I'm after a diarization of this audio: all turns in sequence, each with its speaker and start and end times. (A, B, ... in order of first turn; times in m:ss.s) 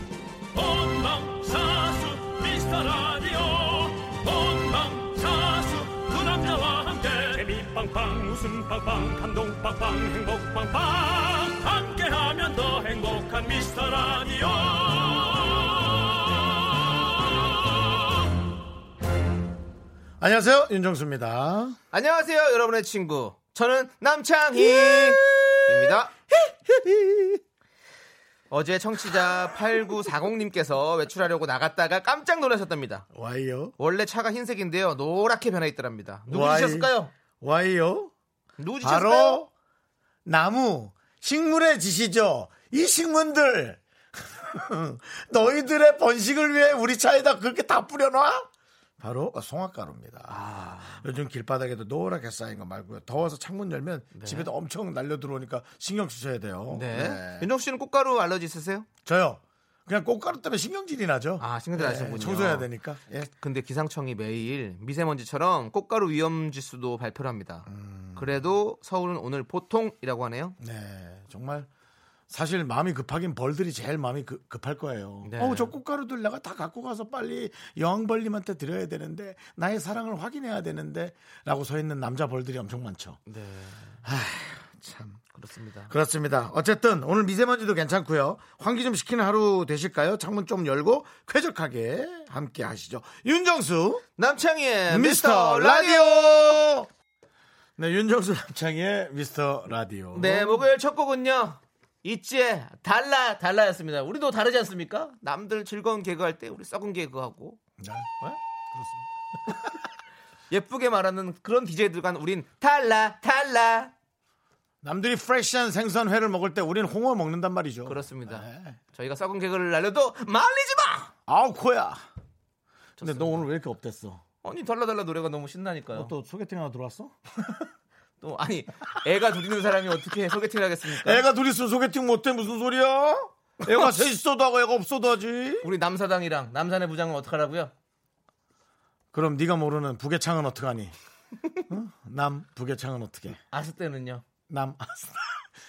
0:00.5-0:16.4 A
0:20.2-0:21.8 B
0:21.9-0:26.1 C
0:24.6-0:27.4 B
0:28.5-0:33.1 C
0:29.1-0:29.9 B
0:33.1-0:33.8 B
0:33.8-0:37.1 C
0:36.3-0:38.1 B
0:38.6-0:39.4 C
0:38.8-0:39.5 B
0:40.2-0:57.5 B
0:50.3-0:51.0 C
0:54.1-0:54.5 C
0:56.7-0:58.9 C
0:59.0-1:03.3 B
1:01.4-1:02.7 C
1:03.3-1:10.6 C
1:07.7-1:08.4 B
1:10.6-1:11.7 B
1:12.3-1:23.2 B
1:15.2-1:15.8 C
1:23.3-1:24.0 C
1:24.0-1:25.2 B
1:25.3-1:25.9 C
1:25.9-1:34.0 B
1:34.2-1:36.6 C
1:34.9-1:36.9 B
1:37.8-1:40.7 B
1:40.1-1:47.6 C
1:47.8-1:48.2 B
1:48.7-1:49.8 B
1:50.5-1:53.9 C
1:54.8-1:58.8 B
1:57.9-2:01.1 C
2:01.3-2:02.0 B
2:03.0-2:03.5 C
2:03.0-2:04.2 B
2:04.4-2:06.1 C
2:05.9-2:07.7 B
2:08.2-2:11.2 C
2:10.9-2:15.7 B
2:13.6-2:14.0 C
2:15.6-2:17.7 C
2:19.1-2:20.9 B
2:21.7-2:23.4 B
2:23.5-2:24.2 C
2:24.5-2:25.4 B